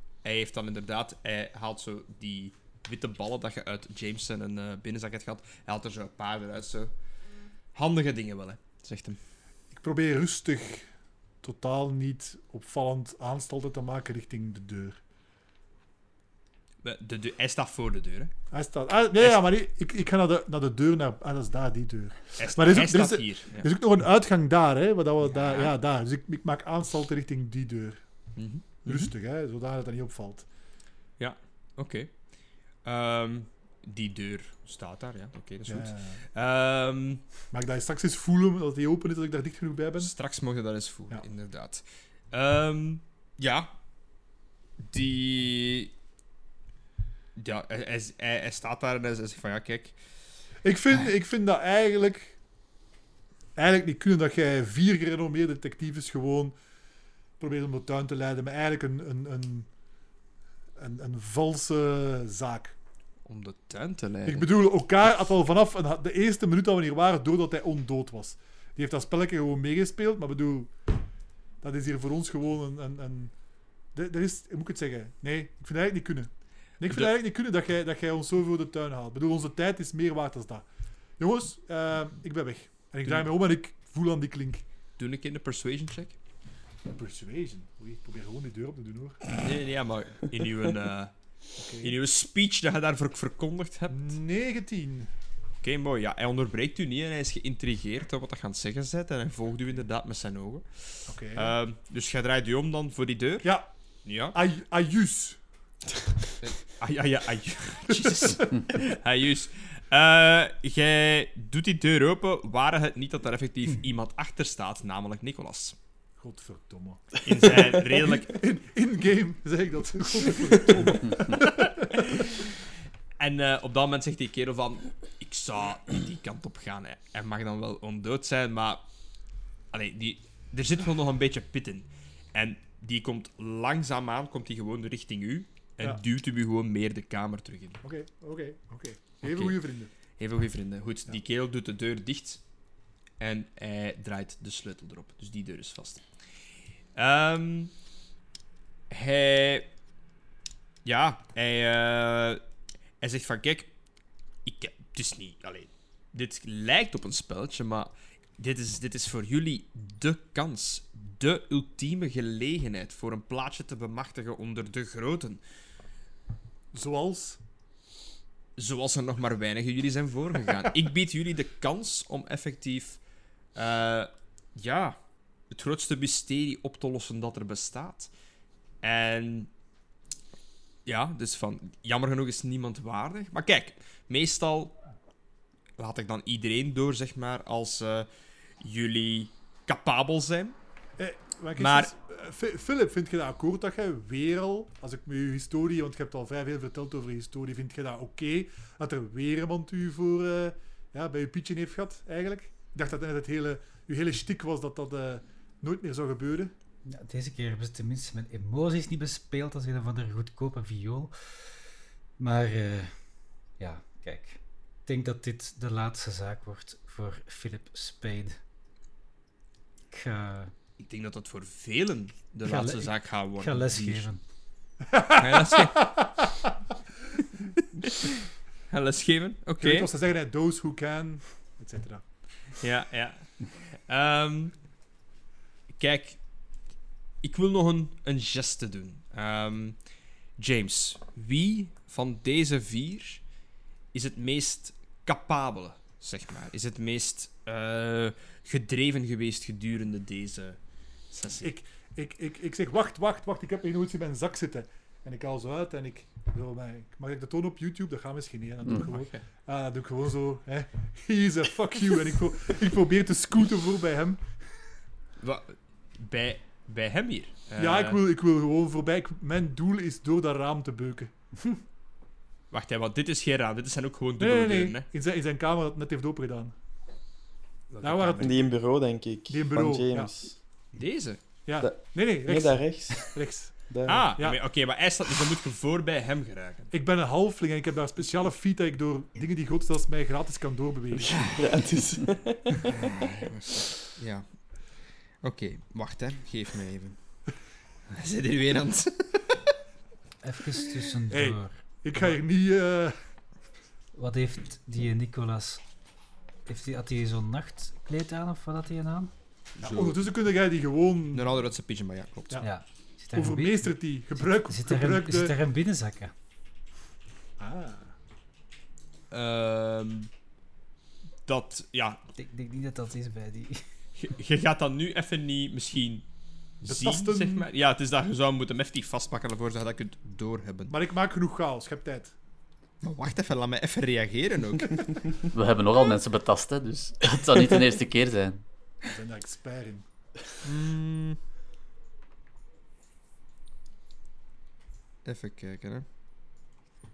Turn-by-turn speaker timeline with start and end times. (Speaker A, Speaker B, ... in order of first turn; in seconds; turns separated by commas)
Speaker A: 0.2-6.9, Speaker A: 7.7-9.2, Speaker B: 9.7-10.9, Speaker B: 11.4-15.0, Speaker A: 16.8-18.3, Speaker B: 18.5-28.0, Speaker A: 19.2-19.4, Speaker A: 22.4-23.7, Speaker A: 25.2-25.8, Speaker A: 28.4-29.1, Speaker B: 28.6-30.5, Speaker A: 31.2-32.2, Speaker A: 32.8-37.2, Speaker B: 35.7-36.2, Speaker B: 37.5-40.1, Speaker A: 40.0-43.7, Speaker A: 44.8-45.9, Speaker A: 47.4-50.0, Speaker B: 50.6-52.4, Speaker B: 53.6-56.5, Speaker B: 57.4-59.7, Speaker B: 60.8-62.8, Speaker A: 63.3-64.5, Speaker B: 64.3-70.7, Speaker B: 71.6-73.3, Speaker B: 73.9-80.7, Speaker B: 81.2-84.6, Speaker A: 85.0-86.2, Speaker B: 86.9-89.3, Speaker A: 89.4-91.1, Speaker B: 91.6-91.9, Speaker A: 91.8-94.2, Speaker B: 93.9-95.1, Speaker A: 95.6-103.5, Speaker B: 101.1-101.6, Speaker B: 103.4-105.4, Speaker A: 104.0-104.3, Speaker A: 106.4-115.8, Speaker B: 116.2-121.7, Speaker A: 117.2-118.3, Speaker A: 121.2-122.5, Speaker A: 123.2-128.8, Speaker A: 129.7-137.8, Speaker B: 137.8-139.9, Speaker A: 139.2-139.6, Speaker A: 140.2-142.4, Speaker A: 143.2-146.1, Speaker A: 146.9-147.7, Speaker A: 148.9-149.7, Speaker A: 150.8-152.4, Speaker A: 153.0-153.7, Speaker A: 154.4-165.4, Speaker B: 166.7-167.4, Speaker A: 168.6-173.0, Speaker A: 173.6-175.0, Speaker A: 175.5-178.1, Speaker A: 178.8-179.5, Speaker A: 180.9-184.8, Speaker A: 185.8-188.1, Speaker A: 188.6-190.6, Speaker B: 191.0-206.5, Speaker A: 191.6-191.9, Speaker C: 206.9-213.0, Speaker C: 213.6-218.4, Speaker C: 219.9-220.5, Speaker A: 220.8-224.1, Speaker C: 222.4-224.2, Speaker B: 224.9-226.1, Speaker A: 225.2-225.8, Speaker A: 227.6-228.2, Speaker A: 228.7-229.9, Speaker B: 229.6-232.1, Speaker A: 232.6-234.6, Speaker A: 235.7-236.2, Speaker A: 237.2-239.8, Speaker A: 240.4-243.2, Speaker A: 243.9-250.6, Speaker A: 251.1-251.5, Speaker B: 251.4-264.3, Speaker A: 258.8-259.2, Speaker A: 265.2-268.0, Speaker B: 267.6-271.4, Speaker A: 272.5-274.9, Speaker B: 274.2-276.5, Speaker A: 277.7-278.4, Speaker B: 277.8-278.5, Speaker D: 278.2-280.4, Speaker B: 279.3-280.1, Speaker A: 280.7-281.2, Speaker B: 281.4-284.4, Speaker D: 281.6-284.1, Speaker A: 283.9-286.7, Speaker B: 286.7-291.3, Speaker D: 290.9-292.6, Speaker A: 292.7-297.2, Speaker A: 297.9-299.5, Speaker C: 300.2-301.6, Speaker B: 301.1-303.0, Speaker C: 303.9-305.6, Speaker C: 306.5-309.1, Speaker A: 309.6-310.0, Speaker B: 309.6-311.3, Speaker A: 311.1-312.4, Speaker C: 312.4-316.1, Speaker B: 313.1-315.3, Speaker B: 317.4-317.9, Speaker A: 319.1-320.1, Speaker A: 321.3-322.0, Speaker C: 322.2-323.6, Speaker A: 324.0-326.1, Speaker A: 326.6-330.7, Speaker B: 326.6-327.5, Speaker B: 330.7-332.1, Speaker A: 332.8-335.0, Speaker E: 335.3-338.4, Speaker B: 338.8-339.9, Speaker A: 340.4-341.2, Speaker A: 345.1-345.9